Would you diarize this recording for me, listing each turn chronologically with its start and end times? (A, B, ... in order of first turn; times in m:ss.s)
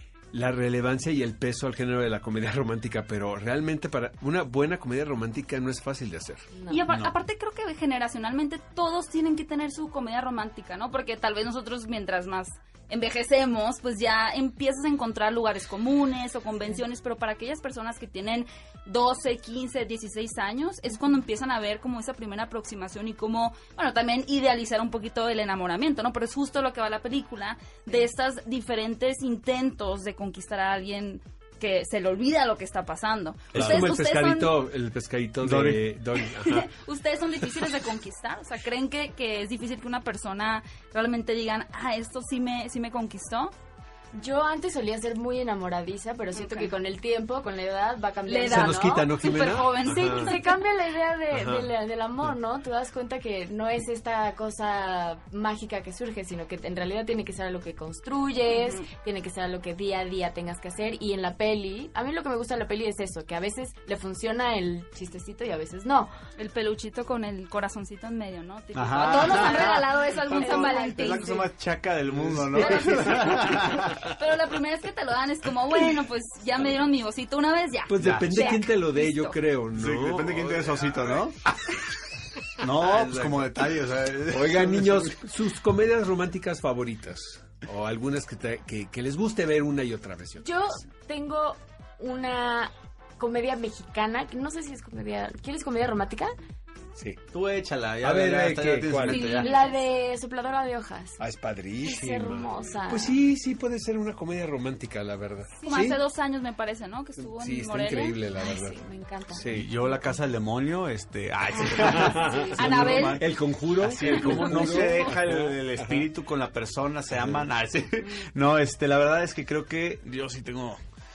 0:00.3-0:06.4 A
0:06.5-0:06.9 B
0:06.7-0:34.6 C
0:06.9-0:07.2 D
0:33.5-0:33.9 D
0:33.5-0:36.7 A
0:35.4-0:35.8 D
0:36.4-0:43.5 C
0:44.1-0:49.1 B
0:46.3-0:46.7 C
0:48.2-0:50.6 C
0:48.4-0:50.3 A
0:49.8-1:06.1 B
0:51.3-0:51.7 A
0:58.5-0:58.9 C
1:06.4-1:11.4 C
1:08.7-1:14.0 D
1:09.1-1:09.8 B
1:10.3-1:11.3 B
1:12.1-1:13.9 A
1:12.5-1:19.4 C
1:17.9-1:21.8 A
1:18.0-1:18.5 D
1:19.7-1:21.4 D
1:22.4-1:23.7 A
1:22.6-1:25.2 D
1:24.3-1:30.6 A
1:30.4-1:36.3 B
1:37.0-1:37.2 A
1:37.3-1:39.5 D
1:38.0-1:39.3 A
1:39.0-1:39.9 C
1:39.4-1:41.2 B
1:41.2-1:46.0 A
1:41.8-1:43.2 B
1:45.6-1:48.2 C
1:47.2-1:49.7 A
1:48.4-1:50.1 B
1:49.5-2:00.8 D
1:51.6-1:56.0 A
1:51.9-1:52.5 B
1:52.4-1:53.2 C
1:54.1-1:55.1 B
1:57.1-1:57.5 A
1:58.0-1:58.2 B